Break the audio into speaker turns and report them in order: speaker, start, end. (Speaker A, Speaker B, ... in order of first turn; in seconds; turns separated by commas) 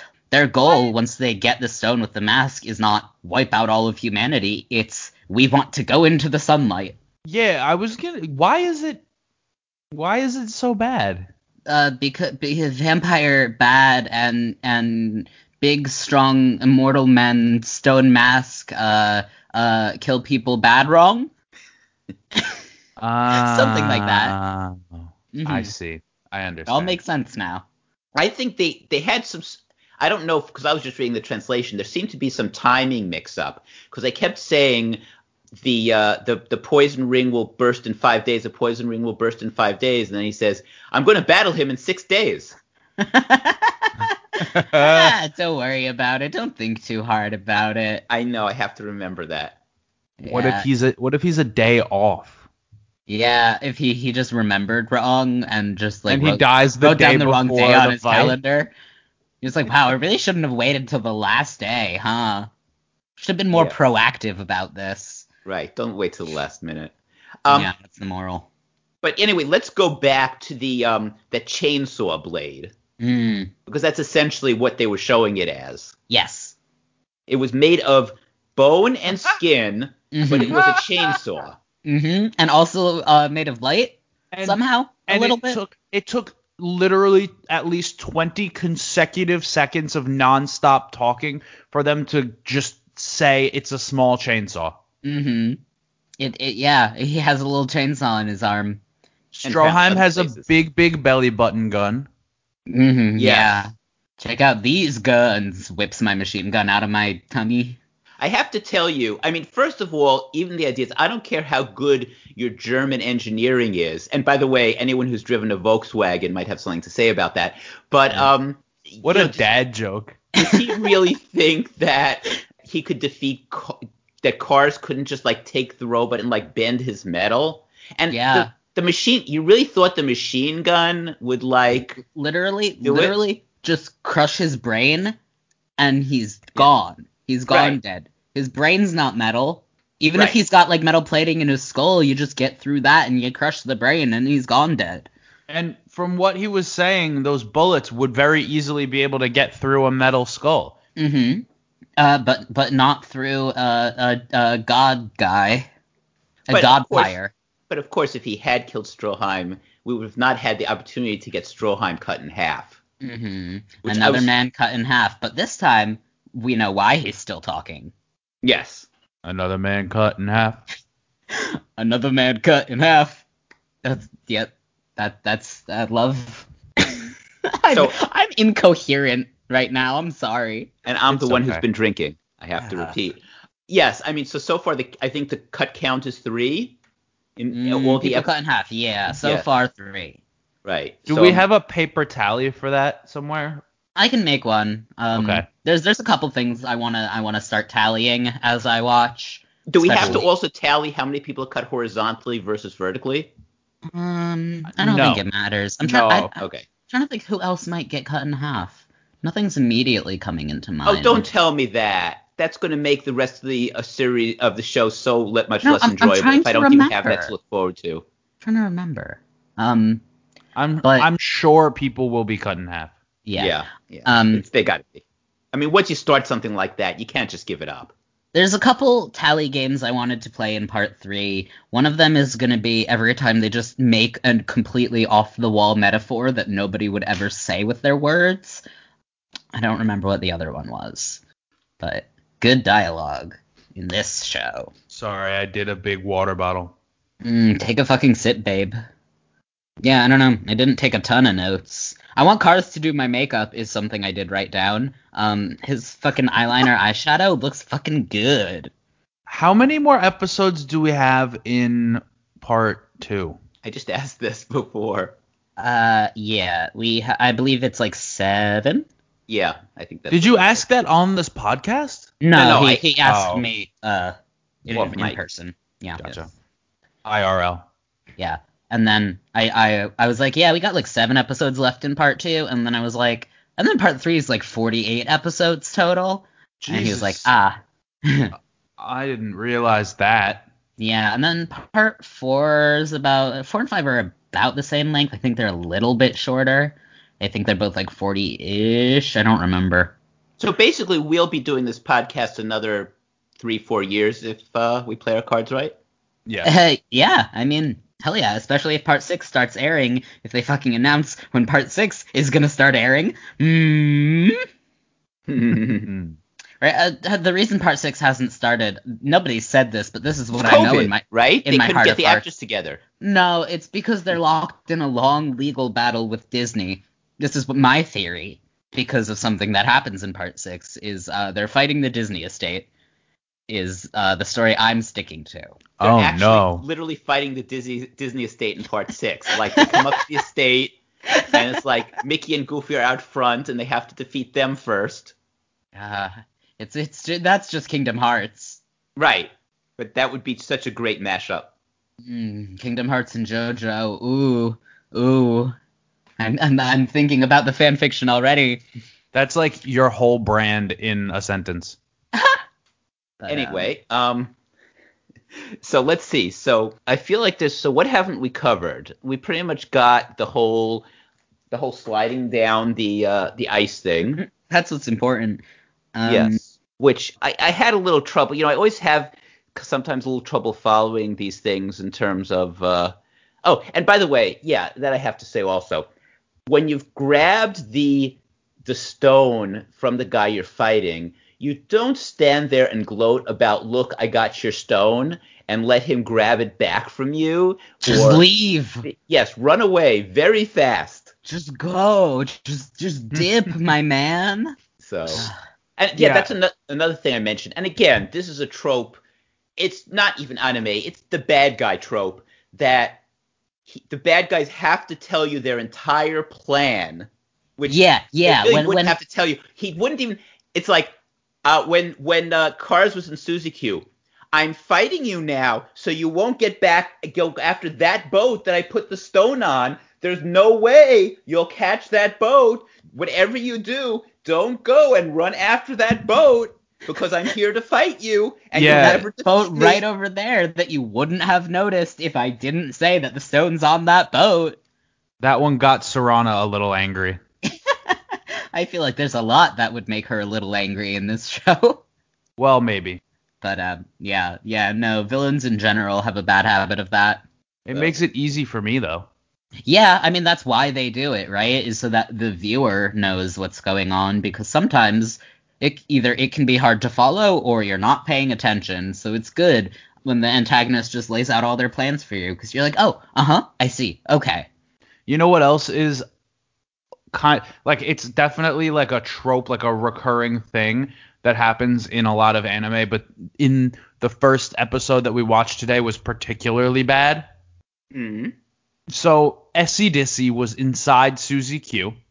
Speaker A: 0.3-6.9, Speaker B: 7.2-9.0, Speaker B: 9.9-11.3, Speaker A: 11.7-21.3, Speaker B: 23.0-27.0, Speaker A: 23.3-24.3, Speaker A: 25.3-25.7, Speaker A: 26.7-27.6, Speaker C: 28.1-35.0, Speaker C: 35.6-42.5, Speaker A: 43.0-48.0, Speaker B: 44.4-45.1, Speaker C: 48.1-49.6, Speaker A: 50.2-50.7, Speaker B: 50.3-52.4, Speaker A: 53.1-58.7, Speaker B: 56.1-58.4, Speaker A: 59.4-62.5, Speaker A: 63.2-65.2, Speaker C: 65.4-66.9, Speaker C: 67.4-67.7, Speaker A: 67.5-68.5, Speaker C: 69.0-72.7, Speaker A: 73.0-73.5, Speaker C: 73.7-75.9, Speaker A: 76.1-76.5, Speaker C: 77.3-81.6, Speaker A: 80.1-80.6, Speaker B: 80.5-81.2, Speaker A: 81.8-85.6, Speaker B: 84.3-94.8, Speaker A: 95.0-95.6, Speaker A: 96.2-98.8, Speaker B: 99.3-102.1, Speaker C: 99.4-100.5, Speaker A: 102.7-107.8, Speaker C: 103.2-103.6, Speaker C: 108.2-119.5, Speaker B: 119.0-120.2, Speaker C: 120.4-132.0, Speaker A: 120.4-120.9, Speaker A: 128.1-128.5, Speaker A: 131.9-135.2, Speaker C: 132.8-133.1, Speaker A: 135.8-145.1, Speaker C: 137.5-137.8, Speaker B: 145.5-150.7, Speaker A: 151.0-151.4, Speaker A: 152.0-155.7, Speaker A: 156.5-157.3, Speaker C: 156.5-157.2, Speaker C: 157.7-162.8, Speaker A: 163.0-167.9, Speaker C: 163.8-164.3, Speaker C: 168.4-168.9, Speaker B: 169.2-170.6, Speaker A: 171.3-173.2, Speaker A: 173.8-180.7, Speaker C: 177.7-178.0, Speaker C: 180.8-186.7, Speaker B: 181.1-181.6, Speaker A: 182.6-182.9, Speaker C: 187.4-188.3, Speaker A: 187.5-190.2, Speaker C: 190.6-191.4, Speaker B: 191.1-193.6, Speaker A: 193.9-200.2, Speaker B: 195.1-195.4, Speaker C: 199.7-203.3, Speaker A: 203.9-206.3, Speaker B: 204.7-205.2, Speaker B: 205.8-206.3, Speaker C: 206.3-206.7, Speaker A: 206.9-211.3, Speaker C: 210.8-218.0, Speaker A: 215.6-217.3, Speaker A: 218.4-220.0, Speaker B: 220.6-222.9, Speaker A: 220.8-221.1, Speaker A: 223.2-224.4, Speaker C: 223.4-227.9, Speaker A: 228.3-238.6, Speaker A: 239.5-241.2, Speaker A: 241.8-244.7, Speaker B: 244.9-246.7, Speaker A: 247.2-248.8, Speaker A: 249.8-258.7, Speaker B: 259.3-263.4, Speaker C: 263.6-265.1, Speaker A: 265.6-268.9, Speaker C: 269.3-270.6, Speaker B: 270.1-272.2, Speaker A: 272.2-276.2, Speaker C: 272.3-272.8, Speaker B: 273.0-273.4, Speaker C: 274.7-275.2, Speaker B: 276.0-276.3, Speaker B: 277.0-277.6, Speaker A: 278.2-288.3, Speaker B: 286.6-287.3, Speaker B: 288.8-290.5, Speaker A: 290.8-299.9, Speaker C: 300.4-305.7, Speaker B: 306.2-306.5, Speaker A: 306.4-314.4, Speaker C: 315.3-315.9, Speaker B: 315.8-316.2, Speaker A: 316.6-322.2, Speaker C: 320.3-322.8, Speaker A: 323.0-332.7, Speaker A: 333.5-335.6, Speaker B: 335.8-336.6, Speaker C: 335.8-340.8, Speaker C: 341.3-345.1, Speaker A: 345.7-348.6, Speaker C: 349.0-351.5, Speaker A: 352.0-355.6, Speaker A: 356.2-358.6, Speaker B: 359.1-361.8, Speaker A: 363.2-363.7, Speaker C: 363.3-364.3, Speaker C: 365.6-370.8, Speaker C: 371.5-374.2, Speaker A: 374.2-375.4, Speaker A: 375.9-376.4, Speaker C: 376.1-385.9, Speaker C: 386.5-398.2, Speaker A: 397.8-398.9, Speaker C: 398.8-401.1, Speaker A: 401.2-404.6, Speaker C: 404.8-405.3, Speaker A: 405.1-405.4, Speaker C: 405.8-409.0, Speaker B: 405.9-406.3, Speaker C: 409.6-413.0, Speaker C: 413.7-420.9, Speaker A: 417.7-419.0, Speaker C: 421.4-439.8, Speaker B: 438.5-439.0, Speaker A: 438.7-444.6, Speaker B: 445.2-447.2, Speaker A: 447.5-448.0, Speaker A: 448.5-451.8, Speaker B: 452.4-453.0, Speaker A: 453.4-457.2, Speaker B: 457.6-459.1, Speaker A: 459.7-474.5, Speaker B: 475.1-476.0, Speaker B: 477.1-487.2, Speaker C: 487.9-488.3, Speaker B: 488.9-491.9